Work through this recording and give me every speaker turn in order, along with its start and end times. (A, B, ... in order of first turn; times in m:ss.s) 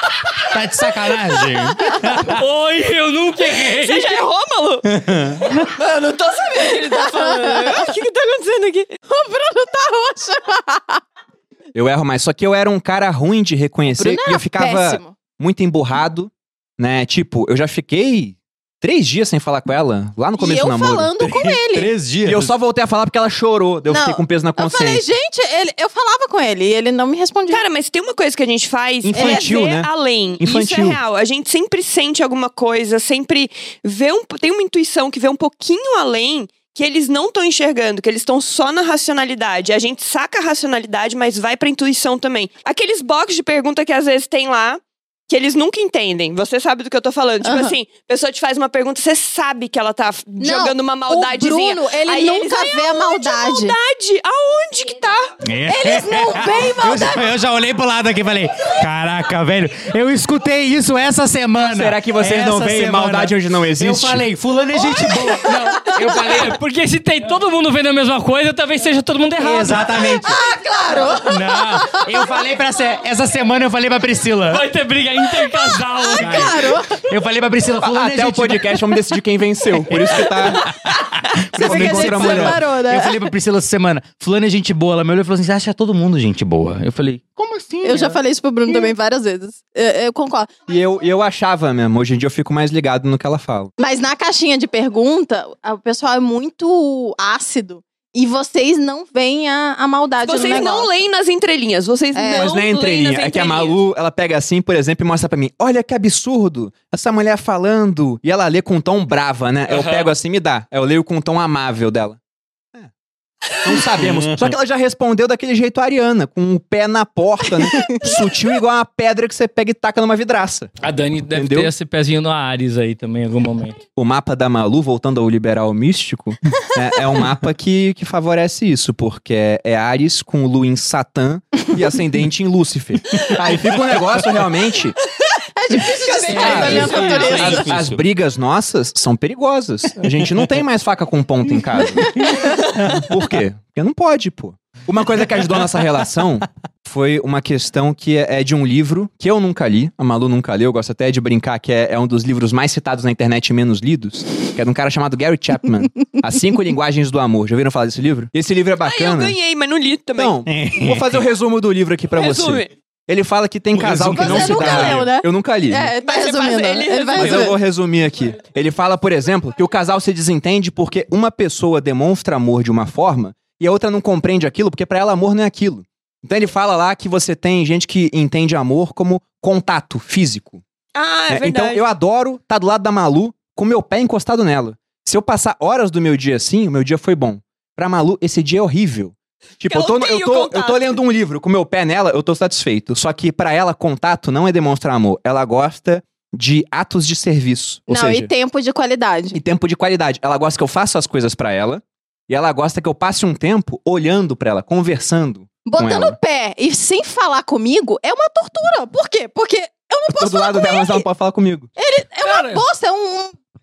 0:00.5-0:02.4 A
0:02.2-0:04.2 B
0:03.8-0:04.8 C
0:04.9-0:05.6 A
0:05.7-0:08.9 C
0:07.0-0:07.8 D
0:09.1-0:11.0 D
0:11.7-0:21.1 E
0:13.9-0:15.1 D
0:20.4-0:21.9 D
0:21.2-0:22.5 A
0:22.2-0:25.0 E
0:23.9-0:27.6 D
0:27.5-0:55.3 C
0:29.0-0:29.9 E
0:29.1-0:29.5 D
0:30.4-0:31.0 E
0:47.4-0:47.7 D
0:50.4-0:53.7 D
0:55.4-1:06.6 A
0:55.7-0:57.2 D
1:01.6-1:04.2 E
1:05.1-1:05.4 D
1:05.9-1:09.9 B
1:09.4-1:10.4 A
1:10.2-1:12.1 D
1:11.0-1:14.6 A
1:14.5-1:16.6 B
1:15.6-1:17.0 D
1:16.2-1:18.8 A
1:17.8-1:20.8 E
1:19.9-1:28.2 A
1:21.5-1:23.2 D
1:21.5-1:22.6 E
1:27.8-1:30.5 D
1:30.7-1:33.7 E
1:33.8-1:40.9 D
1:40.2-1:43.8 C
1:42.1-1:42.5 D
1:42.3-1:52.2 E
1:49.7-1:50.1 B
1:53.6-2:00.7 E
1:54.0-1:54.5 A
2:00.8-2:03.8 B
2:01.3-2:01.7 E
2:04.0-2:15.0 E
2:15.6-2:17.7 D
2:16.0-2:17.6 C
2:16.3-2:17.6 B
2:16.3-2:18.0 A
2:16.4-2:39.4 E
2:22.2-2:22.5 D
2:38.8-2:40.4 C
2:40.2-2:45.9 E
2:40.5-2:41.2 A
2:42.2-2:42.7 C
2:43.7-2:45.1 A
2:44.1-2:47.6 D
2:46.0-2:47.5 C
2:47.2-3:00.6 E
3:00.9-3:01.8 C
3:01.3-3:18.3 E
3:09.7-3:10.9 C
3:17.9-3:19.4 D
3:19.3-3:26.1 E
3:25.6-3:31.0 D
3:30.2-3:31.7 E
3:31.8-3:33.4 D
3:32.2-3:32.6 B